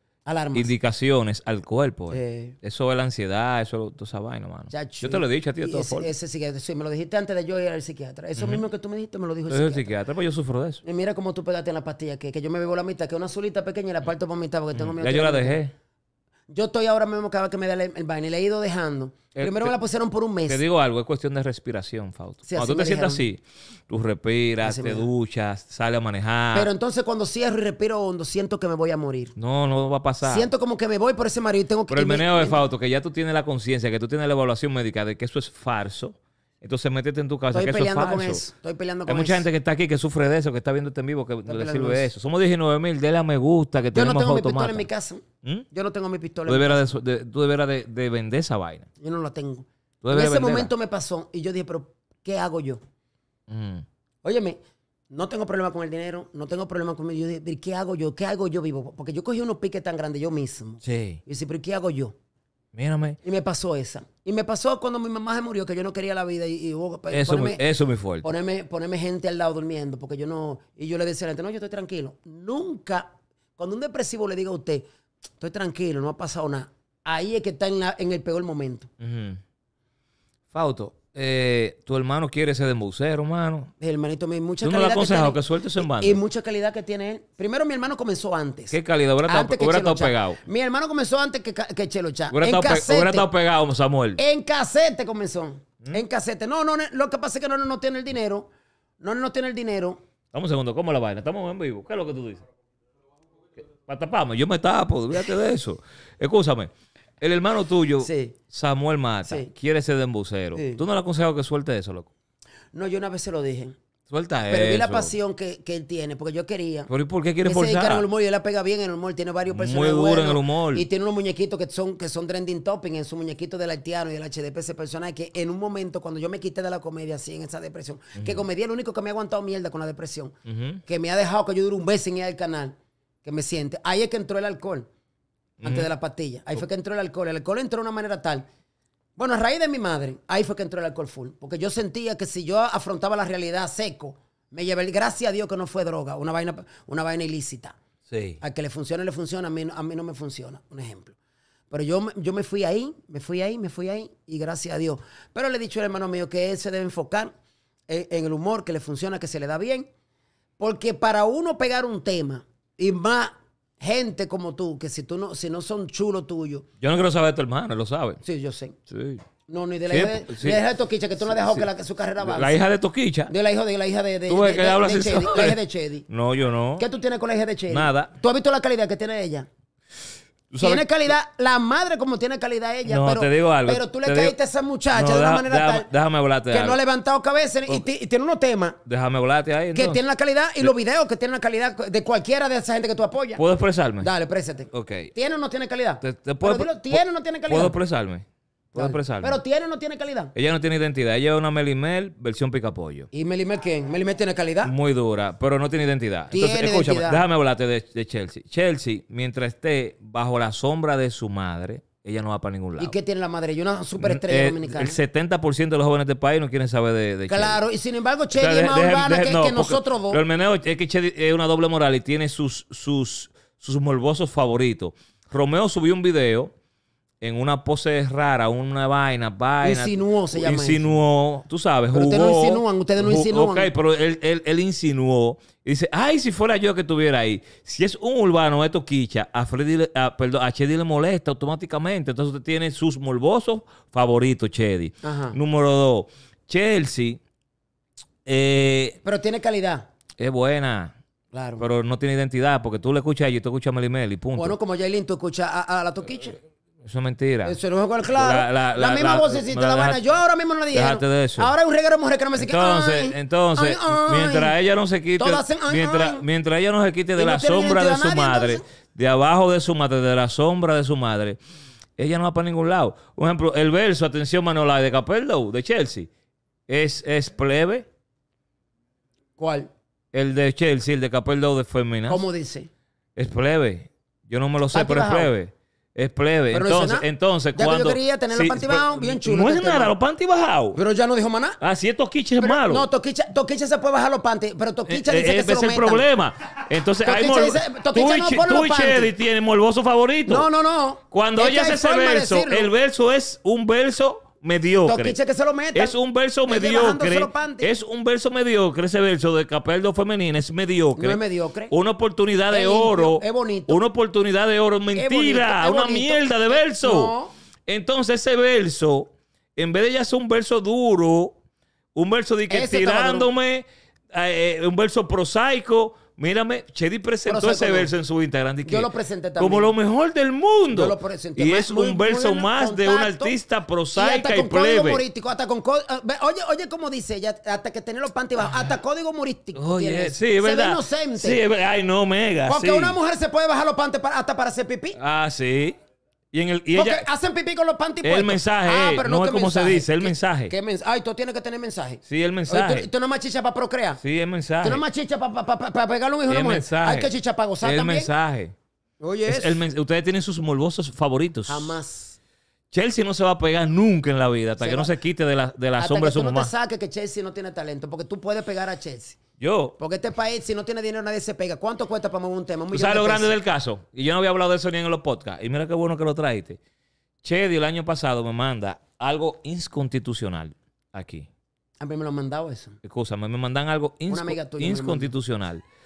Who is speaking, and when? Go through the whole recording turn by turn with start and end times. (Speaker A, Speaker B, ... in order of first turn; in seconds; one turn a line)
Speaker A: 0.2-0.7
Speaker B: 0.5-6.1
Speaker A: 2.1-2.5
Speaker A: 4.7-9.9
Speaker B: 8.4-8.6
Speaker B: 9.5-10.8
Speaker A: 10.8-15.6
Speaker B: 14.7-15.7
Speaker A: 16.5-20.6
Speaker B: 19.4-19.7
Speaker B: 20.5-26.7
Speaker A: 22.4-23.2
Speaker A: 24.6-25.1
Speaker A: 26.5-29.3
Speaker B: 29.4-30.5
Speaker A: 30.2-32.6
Speaker B: 31.9-38.4
Speaker A: 37.5-39.5
Speaker B: 39.1-44.9
Speaker A: 41.5-42.1
Speaker A: 43.9-46.9
Speaker B: 46.5-48.9
Speaker A: 49.0-52.8
Speaker B: 50.0-50.7
Speaker B: 53.5-53.8
Speaker A: 54.2-54.6
Speaker A: 55.1-62.1
Speaker B: 60.8-61.2
Speaker B: 62.7-63.2
Speaker A: 63.2-67.6
Speaker B: 67.1-68.2
Speaker A: 68.2-74.9
Speaker A: 75.4-78.9
Speaker B: 79.0-79.4
Speaker B: 80.5-83.7
Speaker A: 83.8-93.3
Speaker B: 84.6-86.2
Speaker B: 88.7-90.4
Speaker B: 92.3-94.2
Speaker A: 94.2-98.5
Speaker A: 99.0-100.0
Speaker B: 100.3-102.4
Speaker B: 103.8-112.1
Speaker A: 108.0-108.3
Speaker A: 109.2-109.5
Speaker A: 110.5-110.8
Speaker A: 112.7-113.8
Speaker B: 114.1-115.1
Speaker A: 114.5-116.9
Speaker B: 116.9-118.0
Speaker A: 117.4-130.3
Speaker B: 119.5-120.8
Speaker B: 128.2-128.4
Speaker B: 130.4-130.8
Speaker A: 130.8-134.9
Speaker B: 135.6-135.9
Speaker A: 135.6-138.5
Speaker A: 139.2-147.8
Speaker B: 148.1-148.4
Speaker A: 148.4-151.2
Speaker A: 151.7-157.3
Speaker A: 157.9-159.9
Speaker A: 160.6-166.7
Speaker B: 166.8-168.2
Speaker A: 168.2-168.8
Speaker B: 168.9-169.2
Speaker A: 169.5-172.6
Speaker B: 169.9-170.6
Speaker B: 171.2-171.6
Speaker B: 172.2-173.3
Speaker A: 173.3-176.1
Speaker B: 174.3-176.8
Speaker A: 176.8-179.5
Speaker B: 177.7-178.1
Speaker B: 180.5-180.9
Speaker A: 180.6-185.9
Speaker B: 182.8-184.3
Speaker B: 184.9-186.8
Speaker A: 186.5-188.8
Speaker B: 188.8-190.0
Speaker A: 189.7-193.4
Speaker B: 193.4-194.1
Speaker A: 194.0-197.7
Speaker B: 194.7-195.1
Speaker B: 196.0-199.4
Speaker A: 198.7-200.3
Speaker B: 200.3-203.1
Speaker A: 203.1-204.7
Speaker B: 204.6-212.9
Speaker A: 206.3-207.2
Speaker A: 212.8-215.0
Speaker B: 214.0-217.6
Speaker A: 217.3-220.2
Speaker B: 218.3-226.5
Speaker B: 227.2-247.2
Speaker A: 229.6-230.9
Speaker A: 231.9-233.7
Speaker A: 245.0-245.4
Speaker B: 248.2-249.0
Speaker A: 249.0-249.9
Speaker B: 250.2-250.9
Speaker A: 251.3-251.6
Speaker B: 251.6-254.6
Speaker A: 254.3-256.4
Speaker B: 256.8-257.6
Speaker A: 257.4-264.5
Speaker B: 258.1-260.0
Speaker B: 260.7-261.5
Speaker B: 262.4-271.4
Speaker A: 265.2-266.2
Speaker A: 267.1-268.6
Speaker B: 272.0-276.1
Speaker B: 276.7-277.9
Speaker A: 279.4-279.7
Speaker B: 280.1-282.2
Speaker A: 282.1-282.7
Speaker B: 283.1-290.8
Speaker A: 284.7-285.3
Speaker A: 286.5-289.9
Speaker A: 290.7-291.6
Speaker B: 291.6-292.9
Speaker A: 292.4-296.1
Speaker B: 294.9-300.5
Speaker A: 297.0-299.1
Speaker A: 300.3-302.7
Speaker B: 301.1-305.1
Speaker A: 304.8-307.7
Speaker B: 305.7-317.1
Speaker A: 310.9-311.7
Speaker A: 312.5-313.8
Speaker A: 314.9-317.3
Speaker B: 317.7-321.4
Speaker B: 321.9-335.0
Speaker A: 322.5-323.3
Speaker A: 327.2-327.9
Speaker A: 328.6-329.7
Speaker A: 330.7-333.3
Speaker A: 333.9-341.4
Speaker B: 339.5-343.0
Speaker A: 342.5-345.0
Speaker B: 345.0-345.8
Speaker B: 346.3-347.1
Speaker A: 346.7-354.0
Speaker B: 348.0-350.5
Speaker B: 352.1-352.9
Speaker B: 354.0-354.8
Speaker A: 354.6-358.1
Speaker B: 356.3-358.5
Speaker A: 359.0-359.6
Speaker B: 359.3-361.8
Speaker A: 361.5-362.2
Speaker B: 362.7-366.5
Speaker A: 364.6-364.9
Speaker A: 365.8-369.2
Speaker B: 369.4-369.7
Speaker A: 369.8-373.3
Speaker B: 372.7-376.6
Speaker B: 377.2-381.3
Speaker A: 381.8-382.8
Speaker B: 382.8-385.6
Speaker A: 384.1-385.1